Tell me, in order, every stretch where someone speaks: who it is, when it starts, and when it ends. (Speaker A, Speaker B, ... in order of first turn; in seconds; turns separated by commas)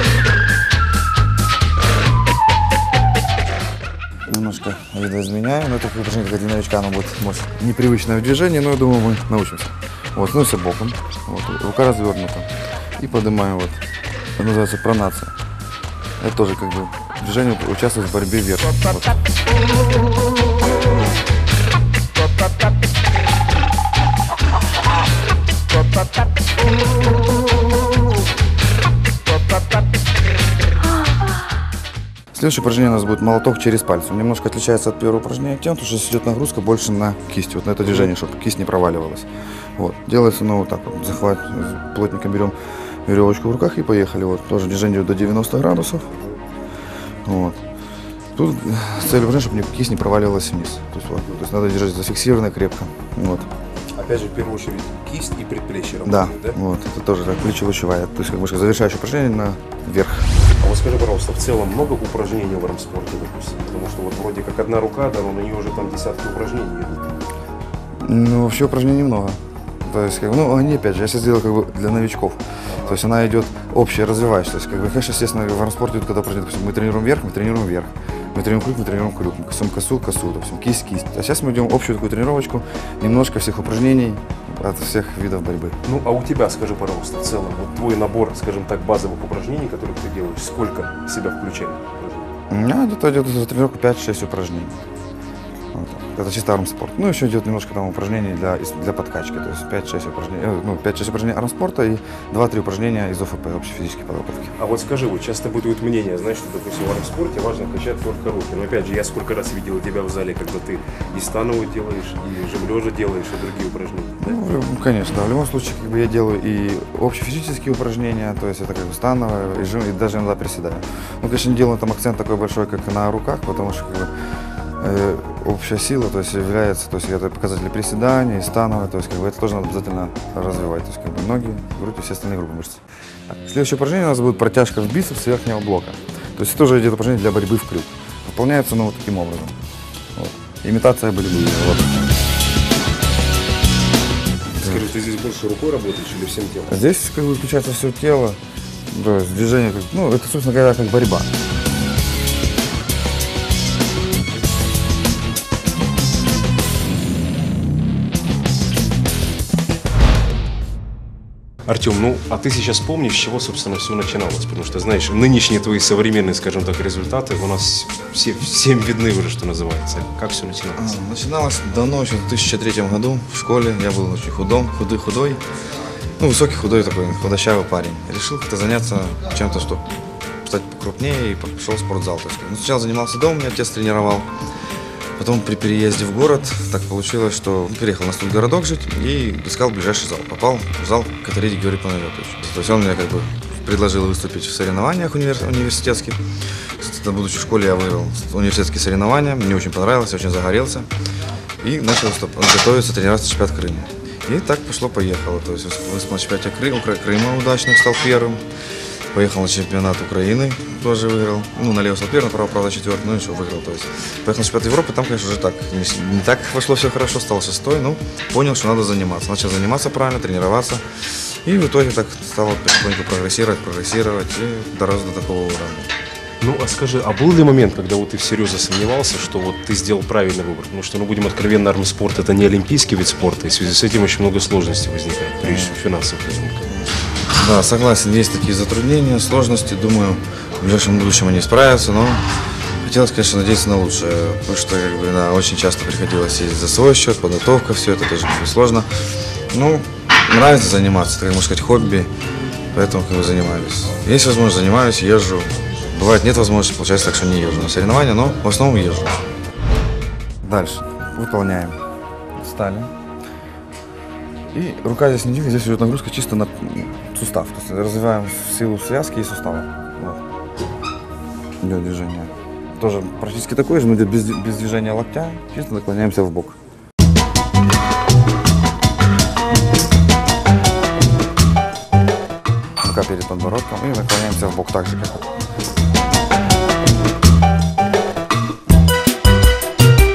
Speaker A: 4.3-13.8, Speaker A: 14.4-15.3, Speaker A: 16.2-19.2, Speaker A: 32.3-42.5, Speaker A: 43.1-46.1, Speaker A: 47.2-47.6, Speaker A: 48.4-53.5, Speaker B: 54.0-56.6, Speaker A: 56.0-60.3, Speaker B: 60.6-67.1, Speaker A: 68.0-85.8, Speaker B: 72.7-73.0, Speaker B: 85.8-92.3, Speaker A: 92.5-94.8, Speaker A: 95.7-104.5, Speaker B: 104.6-114.2, Speaker A: 114.2-124.1, Speaker A: 124.8-139.6, Speaker A: 140.2-142.0, Speaker A: 144.6-144.9, Speaker B: 144.6-146.7, Speaker A: 146.7-151.3, Speaker B: 161.7-171.0, Speaker A: 170.8-175.4, Speaker A: 176.2-179.8, Speaker A: 180.4-184.3, Speaker A: 185.2-196.2, Speaker A: 196.8-200.9, Speaker A: 201.6-208.4, Speaker A: 209.1-220.8, Speaker A: 221.4-225.9, Speaker B: 226.4-236.7, Speaker A: 235.4-235.7, Speaker A: 237.3-242.3, Speaker A: 242.8-248.9, Speaker A: 249.5-252.1, Speaker A: 252.7-259.2, Speaker A: 260.4-261.8, Speaker A: 262.4-262.9, Speaker A: 264.5-270.2, Speaker A: 271.6-276.6, Speaker A: 282.8-285.3